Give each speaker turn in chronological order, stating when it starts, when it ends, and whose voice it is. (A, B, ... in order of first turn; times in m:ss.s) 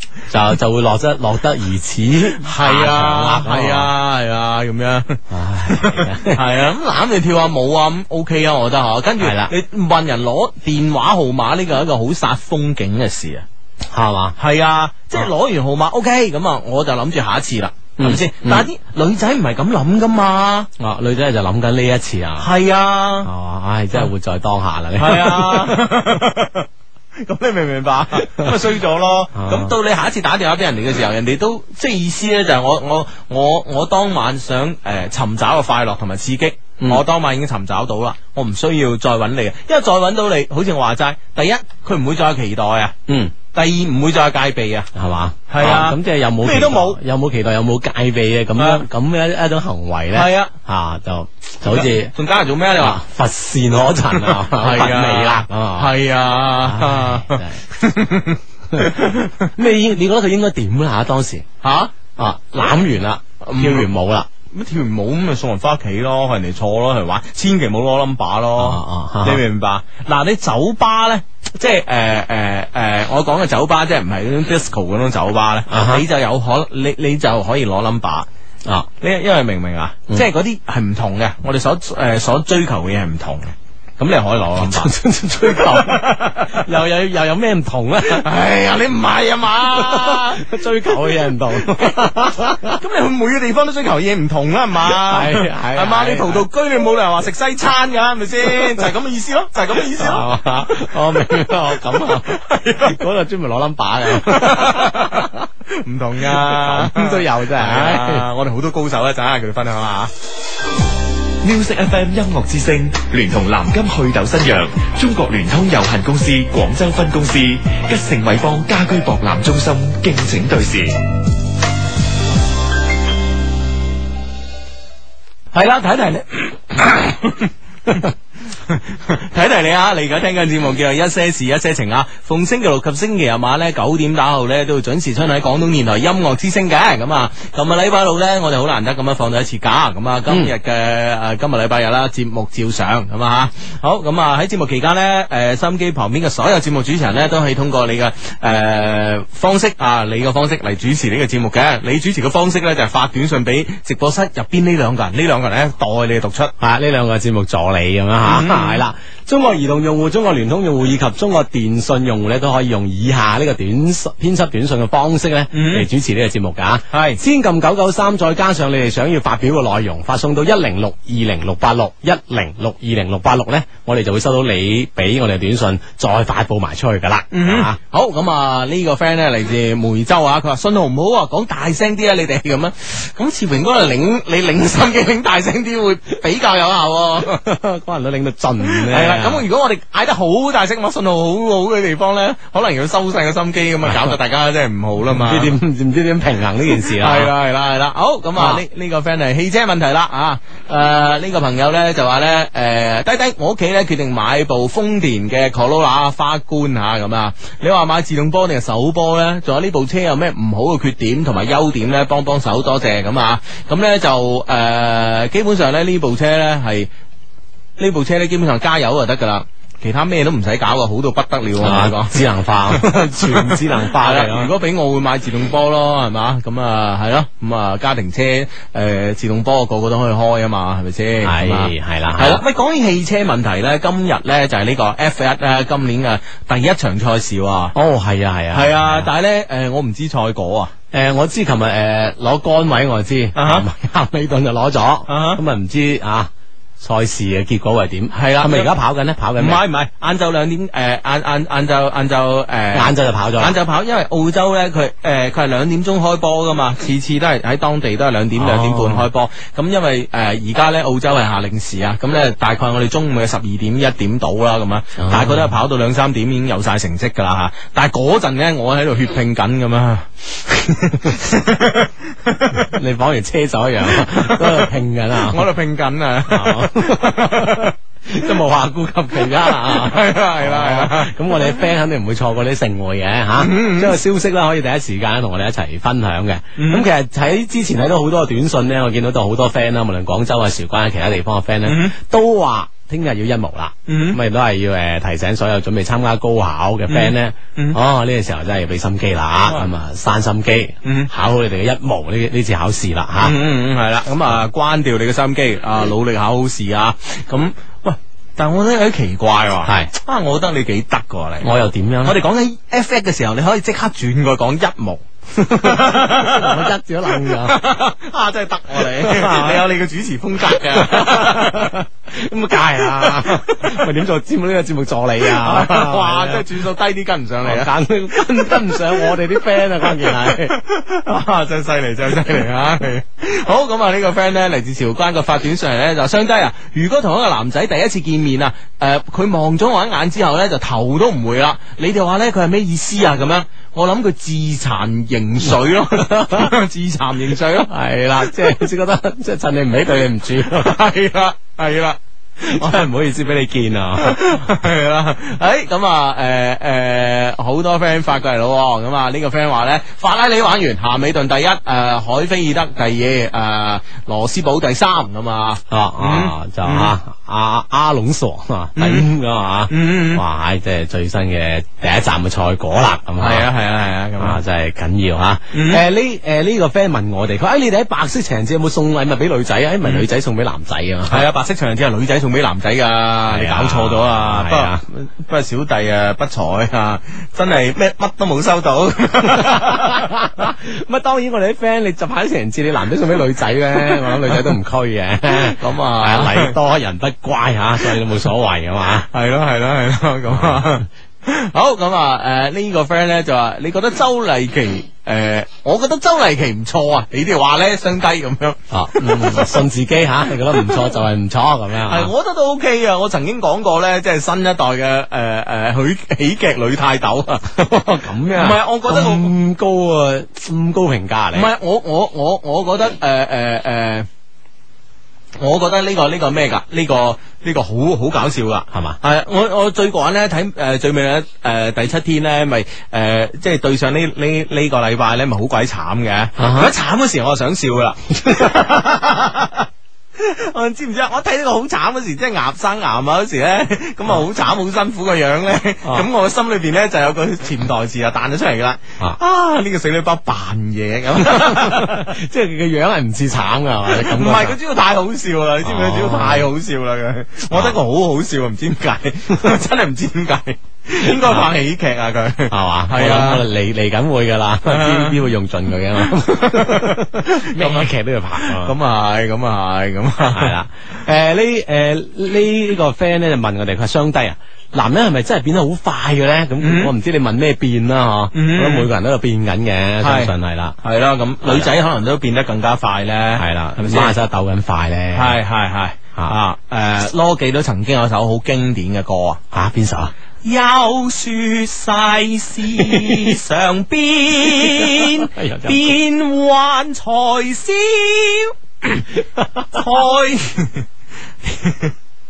0:00.3-0:03.9 A
0:02.4-0:13.4 B
0:05.3-0:06.4 A
0:09.2-0:09.5 A
0:13.9-0:14.4 A
0:14.4-0:20.7 B
0:18.0-0:18.6 A
0:20.8-0:22.5 A
0:22.4-0:23.3 B
0:23.2-0:25.8 A
0:25.0-0:42.9 B
0:28.2-0:28.5 A
0:29.3-0:29.7 A
0:43.1-0:43.3 A
0:43.5-0:44.9 B
0:44.9-0:52.1 A
0:45.5-0:47.0 B
0:48.6-0:48.8 B
0:50.1-0:50.5 B
0:51.7-0:53.0 B
0:52.8-0:55.9 A
0:54.1-0:59.5 B
0:56.6-0:57.6 A
0:58.7-1:01.4 A
1:01.6-1:01.9 B
1:02.2-1:04.3 A
1:03.4-1:03.9 B
1:04.5-1:18.3 B
1:08.6-1:09.4 A
1:15.7-1:16.0 A
1:19.0-1:26.6 B
1:24.6-1:28.3 A
1:28.0-1:31.9 B
1:29.6-1:32.8 A
1:32.6-1:43.0 B
1:34.9-1:36.4 A
1:39.9-1:45.5 A
1:44.0-1:50.1 B
1:46.3-1:48.2 A
1:51.4-2:01.0 C
2:05.5-2:08.1 B
2:08.6-2:36.5 B
2:36.6-2:57.8 A
2:38.2-2:38.8 B
2:45.5-2:45.9 B
2:46.9-2:47.2 B
2:57.3-3:07.4 B
3:07.2-3:09.4 A
3:08.6-3:15.6 B
3:13.8-3:14.1 A
3:15.1-3:17.3 A
3:16.7-3:36.9 B
3:37.8-3:57.7 B
3:41.6-3:44.5 A
3:51.2-3:52.4 A
3:57.7-3:59.1 A
3:58.5-4:00.7 B
4:00.9-4:09.6 A
4:03.3-4:03.7 B
4:05.1-4:05.4 B
4:08.1-4:08.7 B
4:09.4-4:32.7 B
4:12.7-4:13.6 A
4:18.4-4:19.1 A
4:25.0-4:25.5 A
4:32.5-4:35.5 A
4:33.9-4:37.7 B
4:36.3-5:03.4 A
4:39.2-4:41.5 B
4:43.4-4:44.0 B
4:46.6-4:46.9 B
4:51.6-4:51.9 B
4:53.9-4:54.2 B
4:56.9-4:57.8 B
5:00.8-5:01.1 B
5:03.2-5:11.5 B
5:09.6-5:09.9 A
5:11.4-5:12.2 A
5:12.0-5:21.8 B
5:15.4-5:17.6 A
5:18.8-5:19.6 A
5:20.7-5:26.5 A
5:23.0-5:23.8 B
5:25.2-5:48.6 B
5:27.4-5:30.6 A
5:45.8-5:46.5 A
5:47.6-5:50.7 A
5:50.4-5:52.0 B
5:52.4-5:54.3 A
5:52.5-5:52.9 B
5:54.0-6:07.0 B
6:05.7-6:13.5 A
6:08.8-6:09.1 B
6:09.7-6:10.2 B
6:13.2-6:14.4 B
6:14.2-6:21.2 A
6:15.5-6:15.8 B
6:21.1-6:30.1 B
6:23.3-6:24.8 A
6:29.4-6:39.1 A
6:33.8-6:34.5 B
6:35.3-6:36.6 B
6:39.1-6:49.6 B
6:40.3-6:40.6 A
6:48.7-6:52.1 A
6:50.5-6:50.9 B
6:51.9-6:57.5 B
6:57.5-7:01.5 A
6:58.4-6:59.3 B
7:01.3-7:04.1 B
7:05.4-7:32.2 B
7:08.7-7:09.0 A
7:16.4-7:16.7 A
7:31.2-7:34.6 A
7:33.9-7:43.5 B
7:35.6-7:36.5 A
7:37.5-7:37.8 A
7:41.0-7:41.5 A
7:42.5-7:48.7 A
7:44.7-7:45.2 B
7:46.0-7:50.5 B
7:50.3-8:00.8 A
7:56.6-7:56.9 B
7:58.3-7:58.9 B
8:00.0-8:04.2 B
8:01.4-8:01.7 A
8:03.4-8:05.4 A
8:05.1-8:09.4 B
8:09.5-8:10.1 A
8:10.4-8:19.0 B
8:14.8-8:16.0 A
8:19.4-8:19.8 A
8:19.7-8:20.8 B
8:21.4-8:21.9 B